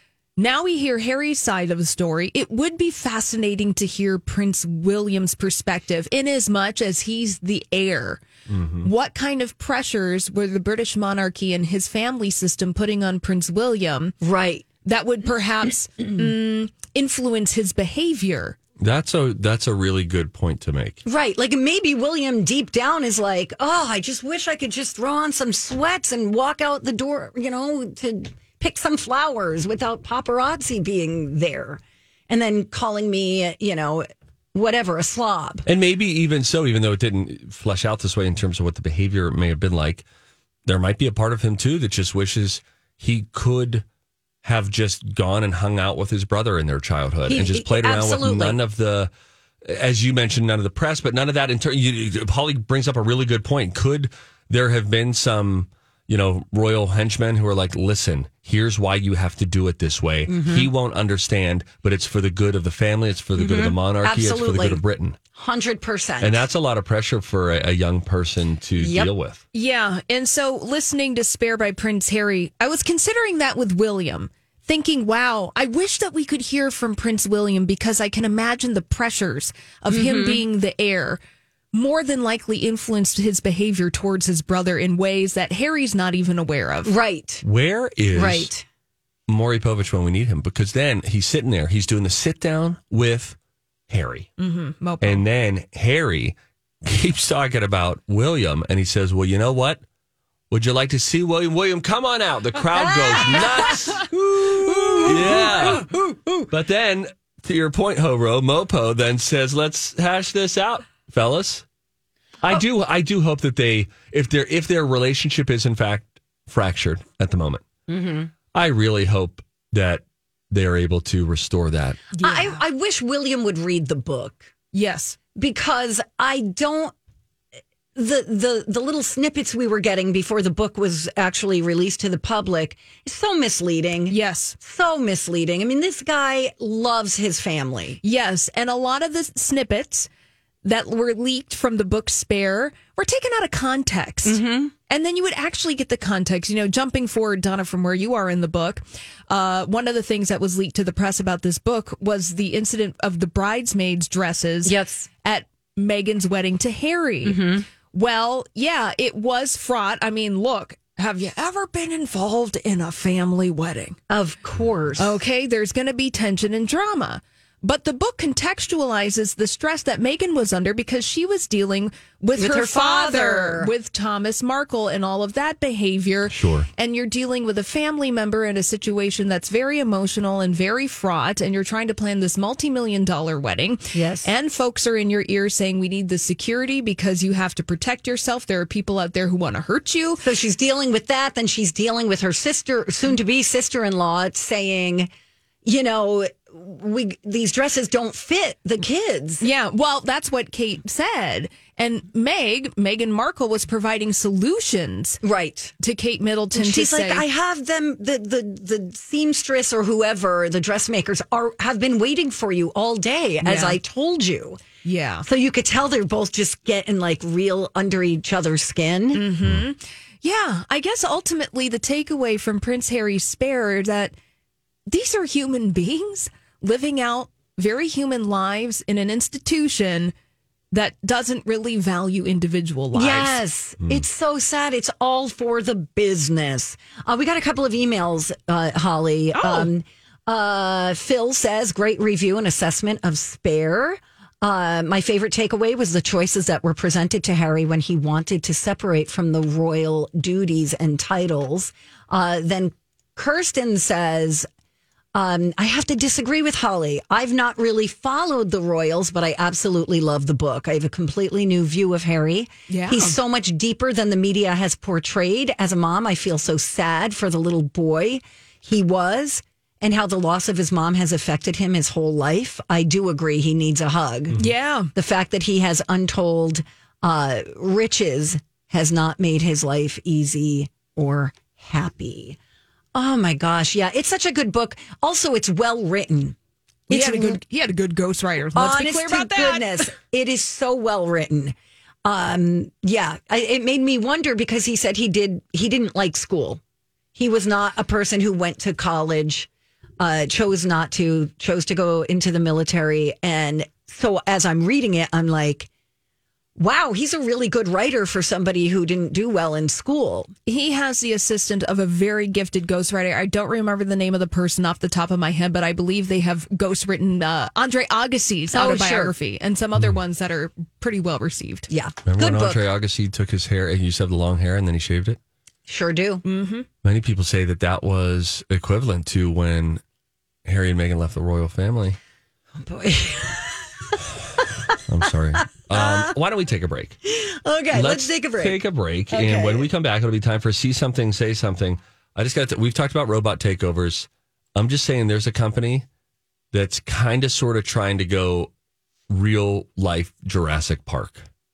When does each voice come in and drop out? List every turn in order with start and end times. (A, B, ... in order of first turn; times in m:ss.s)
0:00.4-0:08.2 A
0:08.5-0:08.9 B
0:08.8-0:14.1 A
0:14.2-0:14.7 C
0:14.8-0:18.6 A
0:18.8-0:21.0 B
0:21.0-0:35.7 C
0:35.7-0:40.0 B
0:40.7-0:43.8 B
0:44.4-0:49.1 B
0:47.3-0:48.6 C
0:49.6-1:05.2 B
1:00.3-1:00.7 C
1:03.4-1:04.8 C
1:05.4-1:06.5 C
1:06.2-1:09.4 B
1:08.8-1:09.1 C
1:09.5-1:21.2 A
1:19.9-1:20.4 C
1:21.7-1:26.9 A
1:26.8-1:27.4 C
1:27.4-1:28.5 B
1:28.1-1:28.7 C
1:29.3-1:33.4 B
1:33.9-1:34.3 B
1:34.4-1:35.2 A
1:35.0-1:39.8 B
1:40.5-1:45.9 B
1:42.8-1:46.5 C
1:46.5-1:51.6 B
1:52.4-1:57.6 B
1:57.9-1:58.3 C
1:58.5-2:02.0 B
2:02.2-2:02.6 A
2:02.2-2:04.5 C
2:04.7-2:05.2 A
2:05.4-2:06.9 C
2:08.0-2:18.0 C
2:14.1-2:14.6 A
2:18.0-2:20.1 A
2:20.6-2:44.0 A
2:24.2-2:24.7 C
2:34.6-2:35.1 C
2:37.2-2:37.6 C
2:44.1-2:45.2 C
2:45.0-3:10.2 A
2:52.4-2:53.7 C
2:56.3-2:56.7 B
3:03.9-3:04.3 C
3:10.2-3:15.1 C
3:15.6-3:19.5 C
3:19.4-3:25.2 A
3:25.2-3:25.7 C
3:25.8-3:27.2 A
3:26.5-3:34.6 C
3:33.4-3:33.8 A
3:34.8-3:35.2 A
3:35.2-3:39.3 C
3:39.1-3:44.1 A
3:44.9-3:50.1 A
3:50.7-3:53.4 A
3:52.9-4:14.5 C
3:59.4-3:59.7 A
4:15.1-4:34.4 C
4:22.7-4:23.2 A
4:34.4-4:34.9 A
4:34.9-4:42.4 C
4:42.9-4:46.4 C
4:46.9-4:47.4 C
4:46.9-4:49.8 A
4:48.5-4:56.6 C
4:57.2-4:59.5 C
5:00.0-5:05.7 C
5:06.6-5:10.3 C
5:10.5-5:21.7 A
5:18.5-5:19.2 C
5:21.7-5:22.6 C
5:22.1-5:25.2 B
5:25.7-5:26.2 C
5:26.2-5:26.7 A
5:26.8-5:29.8 B
5:30.5-5:32.0 B
5:32.6-5:34.8 C
5:34.9-5:37.0 B
5:35.7-5:36.1 C
5:37.1-5:39.7 C
5:37.7-5:45.9 B
5:46.5-5:48.5 B
5:49.1-5:51.3 B